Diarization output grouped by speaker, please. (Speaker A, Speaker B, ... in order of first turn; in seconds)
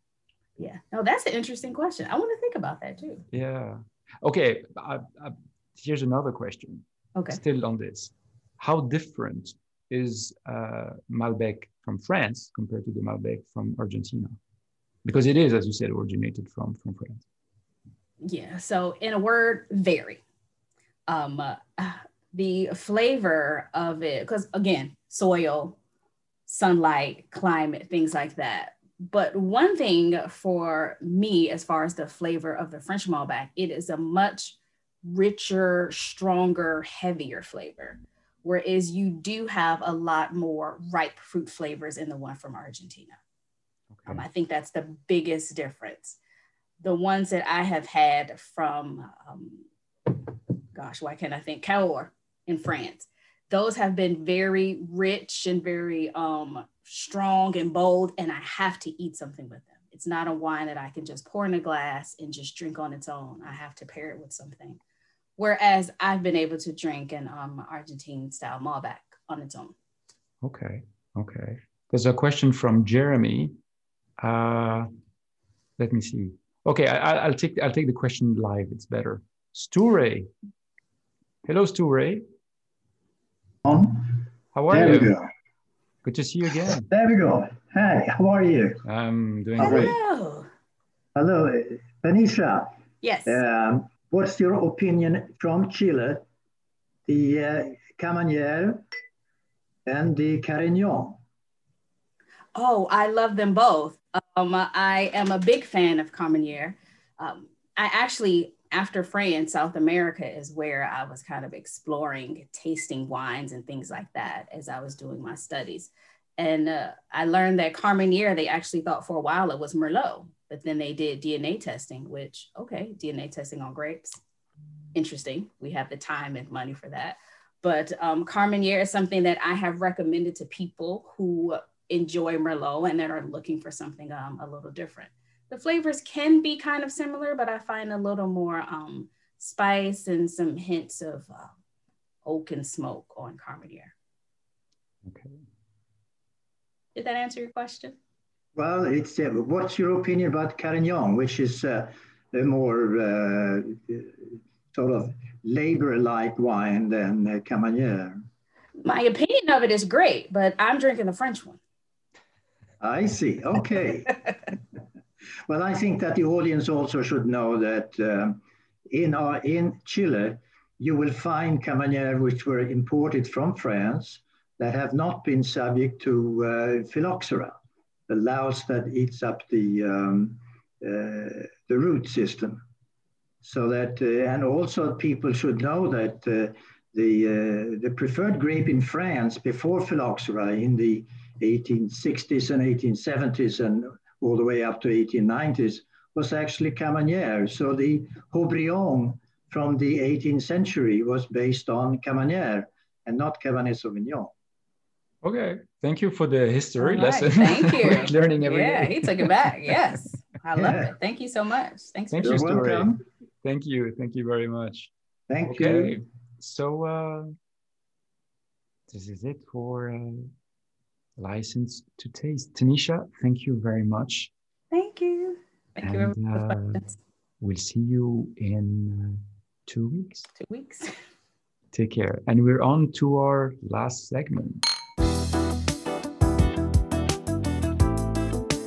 Speaker A: 0.6-3.2, 7.1-7.4, 18.2-20.2, 21.1-25.8, 26.5-43.2, 44.1-46.2, 46.8-50.1, 50.7-64.8, 65.4-69.7, 89.6-90.5, 93.0-93.4, 102.5-124.2, 124.9-141.5, 142.2-143.9, 146.9-148.0, 158.8-161.6, 206.8-212.7, 224.7-226.9, 230.3-230.9
Speaker B: 3.3-14.4, 15.0-17.2, 44.0-44.2, 70.4-73.5, 74.2-74.9, 75.8-80.3, 81.4-82.2, 84.5-85.1, 86.0-86.9, 88.8-89.9, 145.0-145.4, 205.2-209.7, 212.1-214.9, 215.4-217.3, 218.9-220.3, 221.2-224.3, 225.8-226.8, 227.4-230.3, 231.7-234.7
Speaker C: 83.7-85.3, 86.6-88.8, 89.6-89.9, 91.1-92.7, 93.2-96.2, 97.1-98.8, 99.8-101.2, 148.5-158.2, 162.8-164.2, 165.5-177.6, 178.1-182.6, 183.4-204.3, 210.6-210.9, 212.2-213.0, 215.3-216.0